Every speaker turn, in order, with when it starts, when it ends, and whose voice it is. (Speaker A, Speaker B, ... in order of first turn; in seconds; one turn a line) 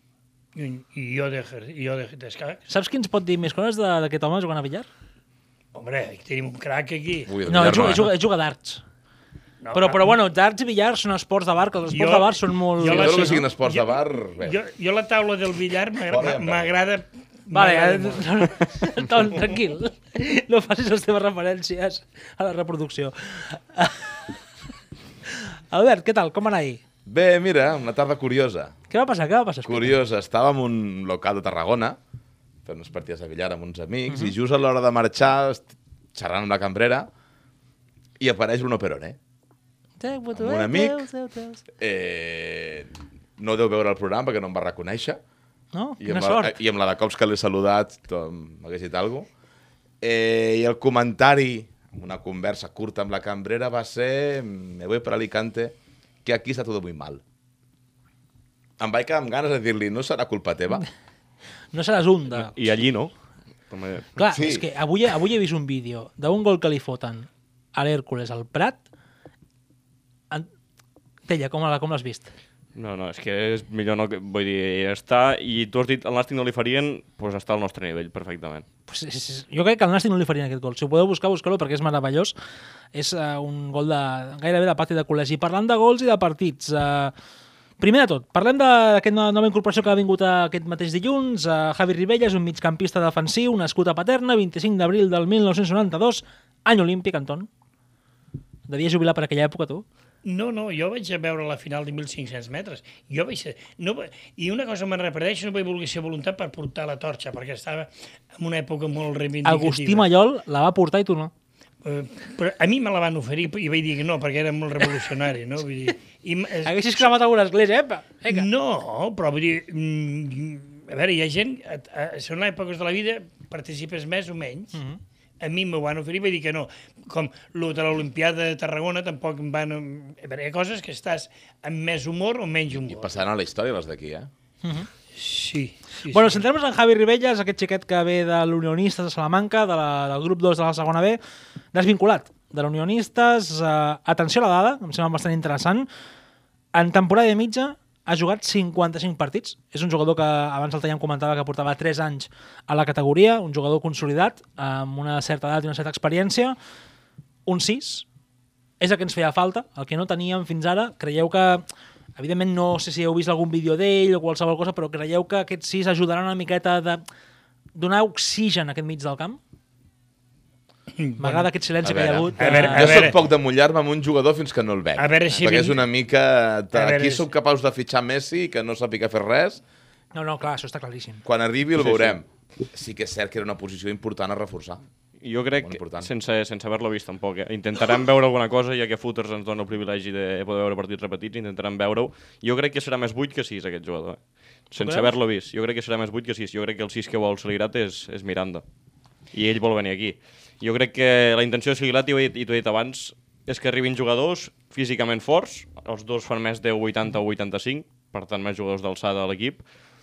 Speaker A: 0.6-2.6
Speaker B: 2.7-4.9
Speaker A: 5.8-7.7
Speaker C: 7.3-8.1
Speaker B: 7.5-8.8
Speaker A: 9.6-10.1
Speaker B: 9.7-13.4
Speaker A: 11.9-18.5
Speaker C: 12.8-14.6
Speaker C: 16.1-16.8
Speaker B: 17.5-24.4
Speaker B: 25.3-26.8
Speaker C: 27.1-28.8
Speaker B: 28.9-30.0
Speaker C: 29.7-32.0
Speaker C: 32.7-37.1
Speaker C: 38.2-39.2
Speaker B: 40.0-41.6
Speaker C: 40.4-41.0
Speaker C: 41.8-45.2
Speaker B: 45.7-46.6
Speaker C: 46.0-49.3
Speaker C: 50.0-57.2
Speaker C: 58.8-60.9
Speaker B: 61.7-62.5
Speaker D: 62.3-63.1
Speaker D: 63.7-64.1
Speaker B: 64.2-68.8
Speaker C: 64.3-64.7
Speaker B: 71.3-72.3
Speaker D: 72.8-78.7
Speaker B: 78.9-82.3
Speaker B: 82.9-87.1
Speaker B: 87.8-97.5
Speaker B: 98.7-99.8
Speaker A: 100.2-110.1
Speaker B: 109.5-111.3
Speaker A: 111.8-117.1
Speaker B: 116.6-118.5
Speaker A: 118.3-124.8
Speaker B: 124.7-125.0
Speaker A: 125.4-133.2
Speaker C: 132.7-134.3
Speaker B: 134.6-134.9
Speaker A: 135.2-136.4
Speaker B: 136.1-141.2
Speaker B: 141.7-145.9
Speaker B: 146.7-156.6
Speaker B: 157.5-158.1
Speaker B: 158.8-161.7
Speaker B: 162.2-167.0
Speaker B: 167.8-169.4
Speaker A: 171.0-171.5
Speaker B: 171.2-173.1
Speaker C: 171.8-179.6
Speaker A: 172.4-173.2
Speaker A: 175.0-175.8
Speaker A: 176.7-177.3
Speaker B: 180.1-181.2
Speaker C: 181.3-184.8
Speaker D: 181.8-182.2
Speaker D: 185.2-194.2
Speaker C: 185.6-186.1
Speaker D: 194.7-198.6
Speaker B: 194.8-195.1
Speaker D: 199.3-209.6